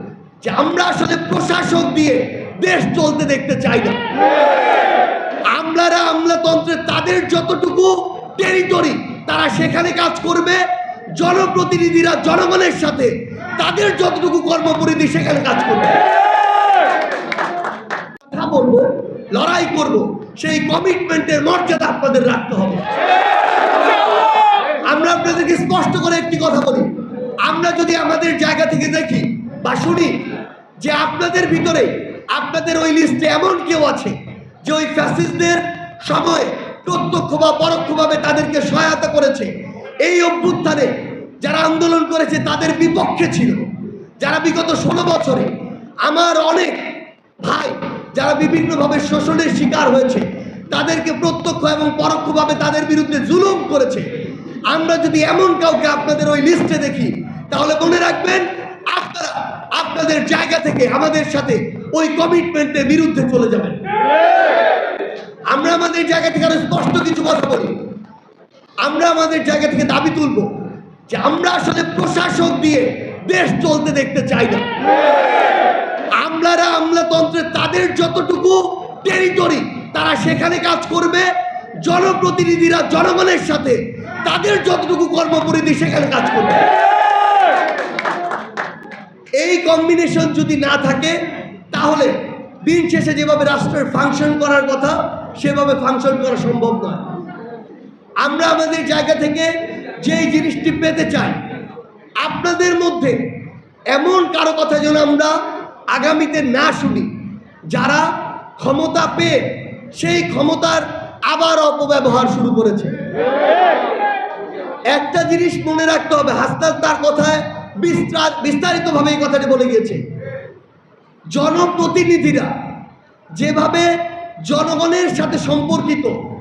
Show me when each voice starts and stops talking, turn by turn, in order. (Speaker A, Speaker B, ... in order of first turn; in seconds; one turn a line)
Speaker A: 0.4-4.0
Speaker A: 5.5-10.7
Speaker A: 11.2-16.0
Speaker A: 18.3-22.9
Speaker A: 24.9-26.9
Speaker A: 27.4-30.2
Speaker A: 30.8-39.5
Speaker A: 40.0-43.7
Speaker A: 44.2-45.5
Speaker A: 46.0-46.8
Speaker A: 47.4-54.1
Speaker A: 54.7-63.8
Speaker A: 65.5-67.8
Speaker A: 68.8-70.5
Speaker A: 71.1-74.7
Speaker A: 76.2-81.3
Speaker A: 81.8-86.7
Speaker A: 89.4-91.2
Speaker A: 91.7-97.1
Speaker A: 98.2-101.4
Speaker A: 102.2-103.2
Speaker A: 103.9-105.4
Speaker A: 105.9-107.1
Speaker A: 107.7-108.1
Speaker A: 108.6-109.4
Speaker A: 109.9-113.0
Speaker A: 114.9-120.0
Speaker A: 121.3-122.5
Speaker A: 123.3-123.9
Speaker A: 124.4-126.2